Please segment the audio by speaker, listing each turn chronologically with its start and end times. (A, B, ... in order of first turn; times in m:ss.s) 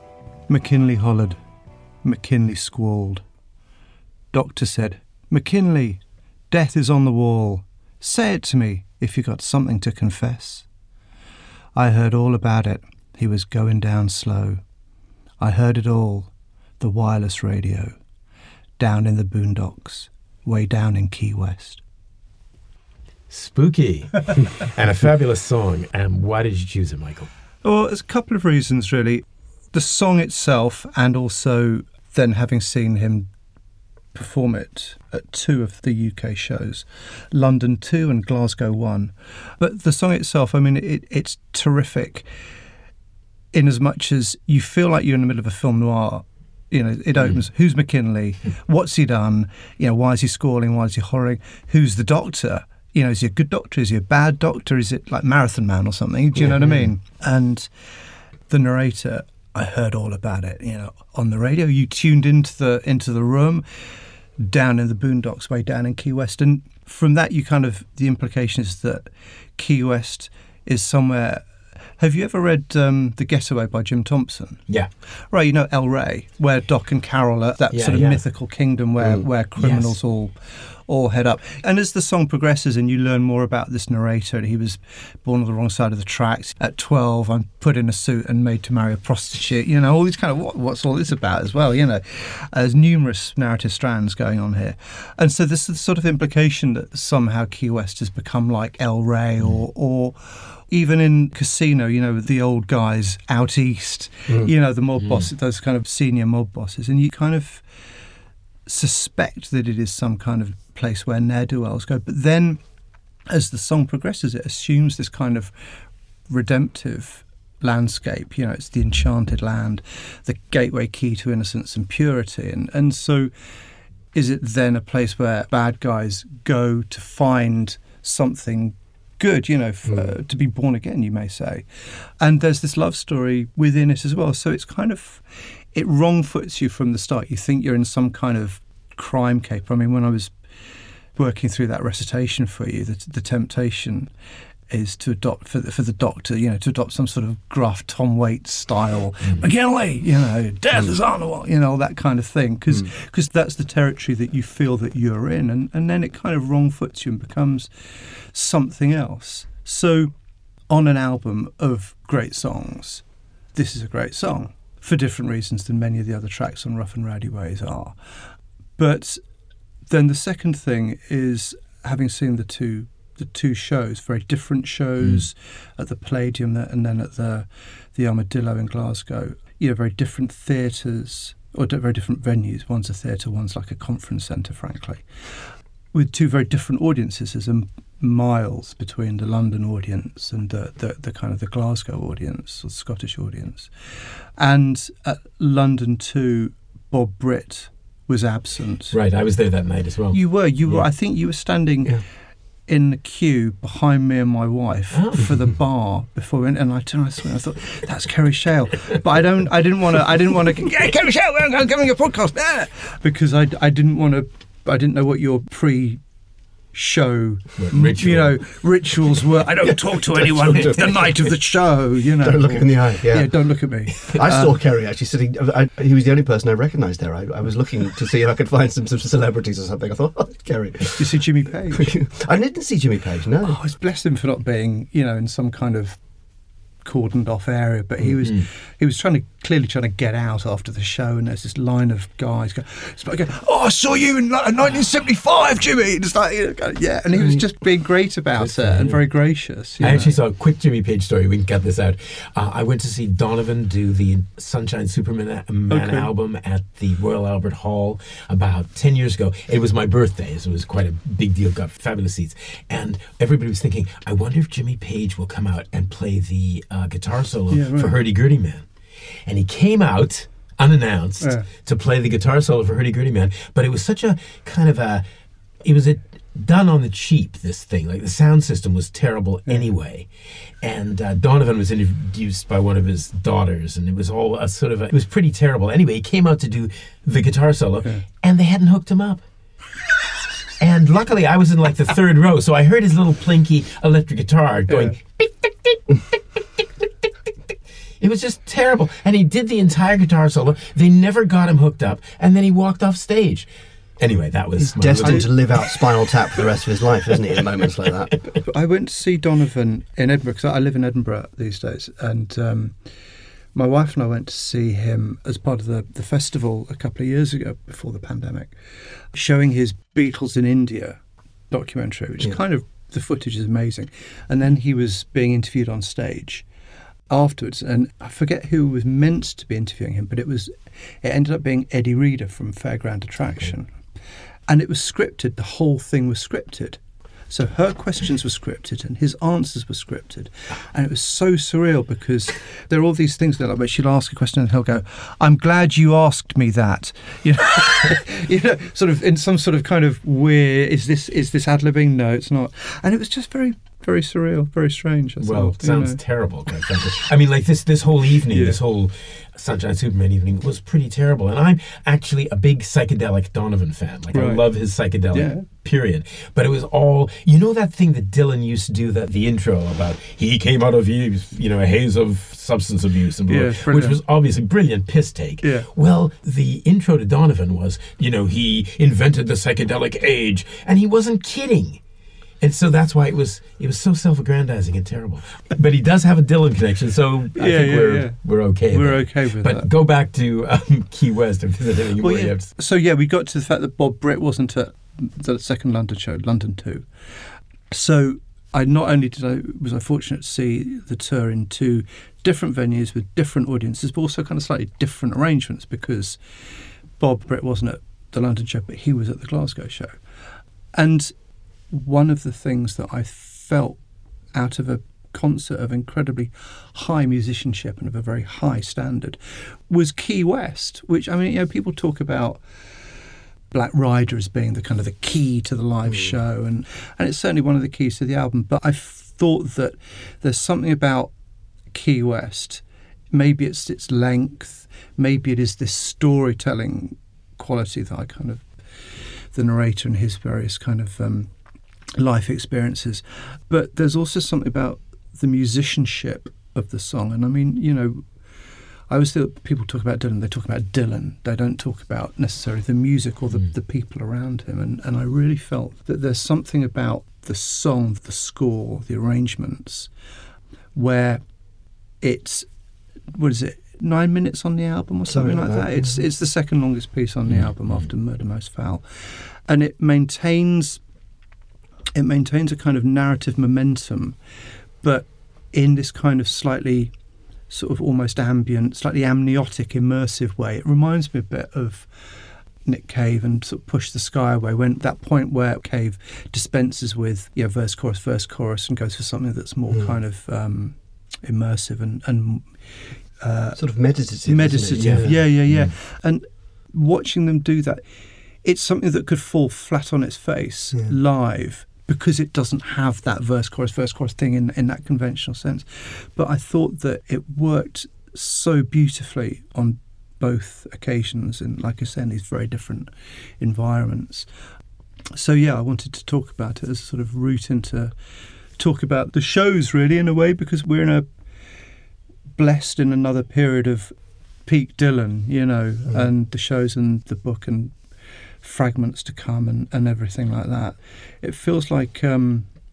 0:00.5-0:01.4 A
0:02.0-0:03.2 A
0:04.3-0:10.6 A
0:11.8-0:14.6 A
0:15.4-0:17.9 A
0:18.8-0:21.8 A
0:23.3-0:27.3 B
0:27.6-0:33.3 A
0:34.1-0:42.3 A
0:43.5-0:57.7 A
0:58.5-1:03.6 A
1:04.4-1:11.5 A
1:12.0-1:14.6 A
1:15.3-1:47.6 A
1:17.7-1:18.2 B
1:19.6-1:19.9 B
1:45.0-1:45.3 B
1:48.6-1:52.6 A
1:53.3-1:55.5 A
1:56.3-2:03.3 A
2:04.1-2:20.3 A
2:21.2-2:24.1 A
2:24.7-2:40.1 A
2:40.7-2:48.0 A
2:48.8-2:49.2 A
2:49.9-3:05.0 A
3:05.9-3:18.9 A
3:18.9-3:20.8 B
3:20.1-3:22.0 A
3:22.7-3:36.0 A
3:24.9-3:25.4 B
3:36.7-3:44.6 A
3:37.6-3:38.4 B
3:40.4-3:40.9 C
3:42.2-3:43.3 C
3:44.1-3:51.0 C
3:51.0-3:51.9 A
3:51.7-3:53.6 C
3:53.4-3:56.0 A
3:56.8-4:10.2 A
4:08.4-4:09.0 B
4:09.8-4:28.6 B
4:15.7-4:16.1 A
4:27.5-4:28.0 A
4:29.2-4:35.0 B
4:31.2-4:31.5 A
4:35.6-4:40.1 B
4:40.6-4:49.2 B
4:50.6-4:56.8 B
4:54.7-4:54.9 A
4:58.0-5:03.5 B
5:04.0-5:06.4 B
5:04.6-5:08.2 C
5:05.0-5:05.3 A
5:08.4-5:12.8 A
5:13.5-5:18.5 A
5:19.1-5:21.0 A
5:21.5-5:26.4 A
5:27.1-5:33.7 A
5:34.5-5:56.0 A
5:55.2-6:21.8 B
5:58.3-5:58.6 A
6:04.1-6:04.4 A
6:05.1-6:05.4 A
6:13.3-6:14.0 A
6:15.4-6:15.7 A
6:22.4-6:32.5 B
6:27.3-6:28.2 A
6:28.7-6:29.7 A
6:32.0-6:46.2 A
6:47.0-6:50.0 A
6:50.7-6:51.1 A
6:51.7-6:53.8 A
6:54.3-7:02.4 A
7:03.5-7:11.1 A
7:11.7-7:18.4 A
7:19.3-7:21.3 A
7:21.9-7:28.0 A
7:28.9-7:39.9 A
7:40.7-7:41.2 A
7:42.0-7:42.5 A
7:43.1-7:50.8 A
7:45.1-7:46.0 C
7:51.9-7:54.2 A
7:54.8-7:56.9 A
7:57.5-8:12.6 A
8:13.2-8:13.6 A
8:13.6-8:15.2 C
8:14.2-8:17.8 A
8:14.8-8:15.7 B
8:18.4-8:34.3 A
8:35.1-8:37.9 A
8:38.6-8:41.0 A
8:42.4-8:43.9 A
8:44.4-8:47.7 A
8:48.4-8:52.5 A